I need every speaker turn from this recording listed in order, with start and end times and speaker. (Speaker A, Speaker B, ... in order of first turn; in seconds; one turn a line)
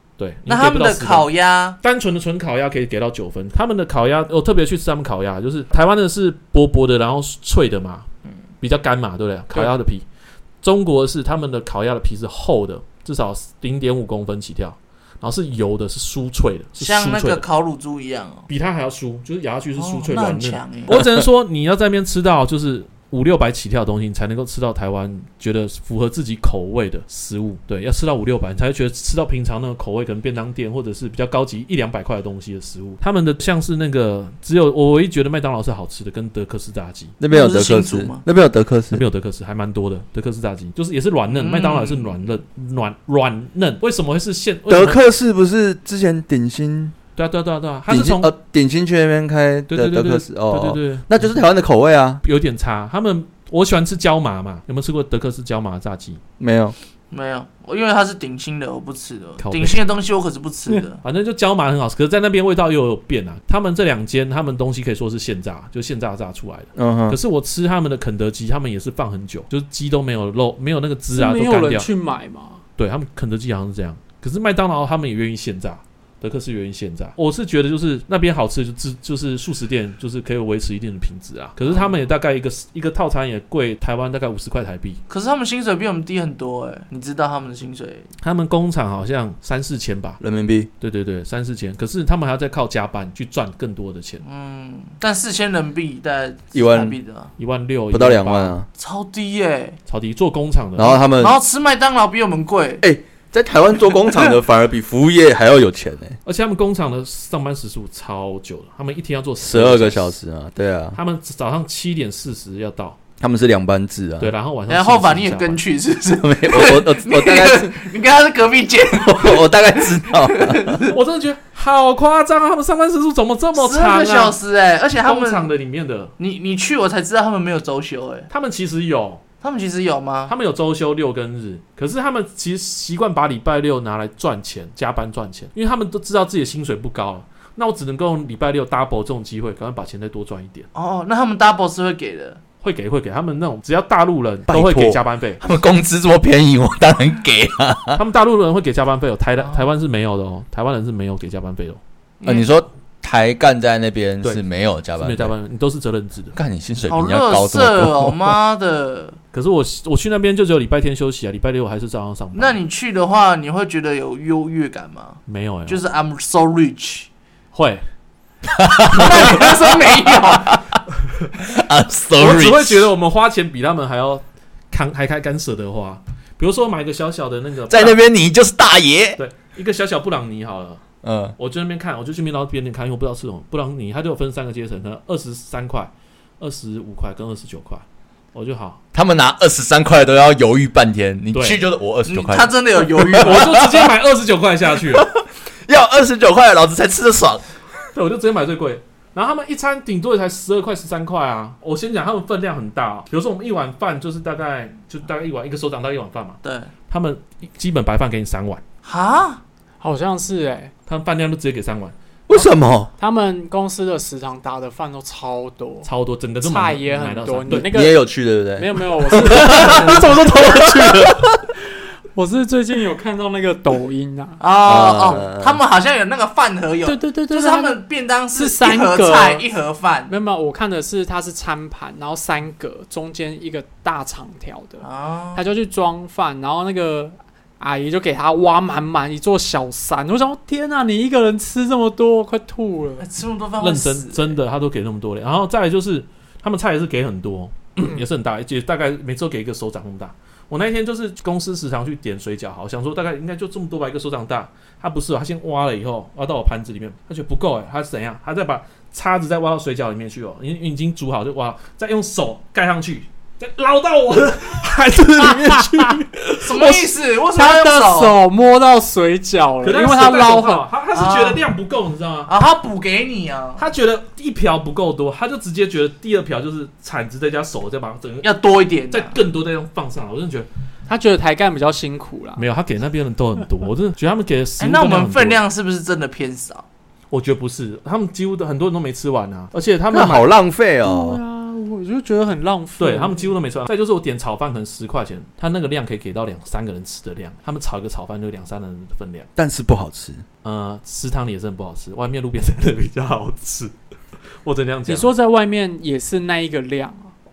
Speaker A: 0.2-1.3
Speaker B: 0.5-1.8
Speaker A: 1.8-8.1
Speaker A: 8.6-10.1
Speaker A: 10.6-17.4
Speaker B: 16.8-18.5
Speaker A: 18.5-37.1
Speaker B: 19.8-20.9
Speaker C: 20.9-21.2
Speaker C: 37.2-39.0
Speaker B: 37.3-38.2
Speaker A: 38.9-45.0
Speaker B: 41.3-42.1
Speaker C: 44.7-47.0
Speaker A: 47.2-48.3
Speaker C: 47.9-52.2
Speaker A: 49.7-51.3
Speaker A: 52.2-56.2
Speaker C: 56.4-56.8
Speaker B: 57.1-61.0
Speaker A: 59.4-59.8
Speaker A: 61.0-71.9
Speaker C: 66.8-67.2
Speaker D: 71.1-72.6
Speaker A: 72.8-85.0
Speaker B: 85.1-88.1
Speaker A: 88.2-90.2
Speaker C: 90.2-90.7
Speaker A: 90.8-94.2
Speaker B: 94.2-97.3
Speaker C: 96.5-97.0
Speaker A: 97.4-98.6
Speaker C: 97.9-98.7
Speaker B: 98.8-99.8
Speaker A: 99.9-101.0
Speaker C: 100.8-101.4
Speaker B: 101.2-102.8
Speaker C: 102.8-106.2
Speaker A: 106.2-110.1
Speaker C: 109.4-111.0
Speaker A: 111.0-113.0
Speaker C: 113.2-114.3
Speaker A: 114.2-115.6
Speaker B: 114.7-121.0
Speaker C: 116.2-117.7
Speaker C: 118.9-120.8
Speaker A: 120.9-124.4
Speaker B: 123.6-125.5
Speaker A: 125.0-126.1
Speaker B: 126.2-128.3
Speaker A: 128.3-129.2
Speaker B: 129.4-130.3
Speaker A: 130.3-140.7
Speaker B: 140.7-142.4
Speaker A: 142.6-145.4
Speaker C: 144.5-148.0
Speaker A: 147.9-151.8
Speaker B: 152.2-152.5
Speaker C: 152.2-155.3
Speaker A: 155.0-156.3
Speaker C: 156.3-158.3
Speaker B: 156.9-159.2
Speaker A: 159.3-162.6
Speaker B: 162.3-167.1
Speaker A: 165.3-165.8
Speaker A: 167.5-167.8
Speaker C: 168.4-170.6
Speaker B: 168.9-170.6
Speaker C: 171.4-172.9
Speaker A: 172.2-178.0
Speaker C: 177.7-179.2
Speaker A: 179.2-180.8
Speaker C: 181.0-181.3
Speaker A: 181.4-187.8
Speaker A: 188.3-188.8
Speaker C: 188.9-193.9
Speaker A: 191.3-191.6
Speaker B: 192.1-193.6
Speaker A: 193.1-195.1
Speaker C: 194.9-197.4
Speaker A: 197.9-208.6
Speaker B: 206.4-206.7
Speaker B: 208.8-209.4
Speaker D: 209.8-210.7
Speaker A: 210.9-211.9
Speaker C: 212.3-212.9
Speaker D: 212.3-215.9
Speaker A: 215.8-217.7
Speaker D: 216.4-218.0
Speaker C: 217.5-221.3
Speaker D: 218.6-221.4
Speaker A: 219.2-220.1
Speaker D: 222.1-224.4
Speaker B: 224.4-230.1
Speaker C: 224.6-225.6
Speaker D: 226.9-227.8
Speaker D: 228.3-229.4
Speaker D: 230.1-243.1
Speaker B: 234.8-235.4
Speaker B: 243.0-244.3
Speaker A: 243.6-266.9
Speaker D: 265.2-265.9
Speaker B: 266.4-268.1
Speaker D: 267.3-270.6
Speaker A: 269.6-272.3
Speaker B: 270.9-271.4
Speaker B: 272.3-273.6
Speaker A: 273.6-278.3
Speaker B: 278.2-279.1
Speaker A: 278.9-280.5
Speaker D: 280.9-282.4
Speaker A: 282.4-285.4
Speaker B: 284.6-286.6
Speaker A: 287.1-290.3
Speaker C: 289.9-291.2
Speaker D: 290.8-293.3
Speaker A: 292.8-299.3
Speaker C: 299.4-300.2
Speaker A: 300.4-303.7
Speaker A: 304.4-305.1
Speaker D: 304.9-307.1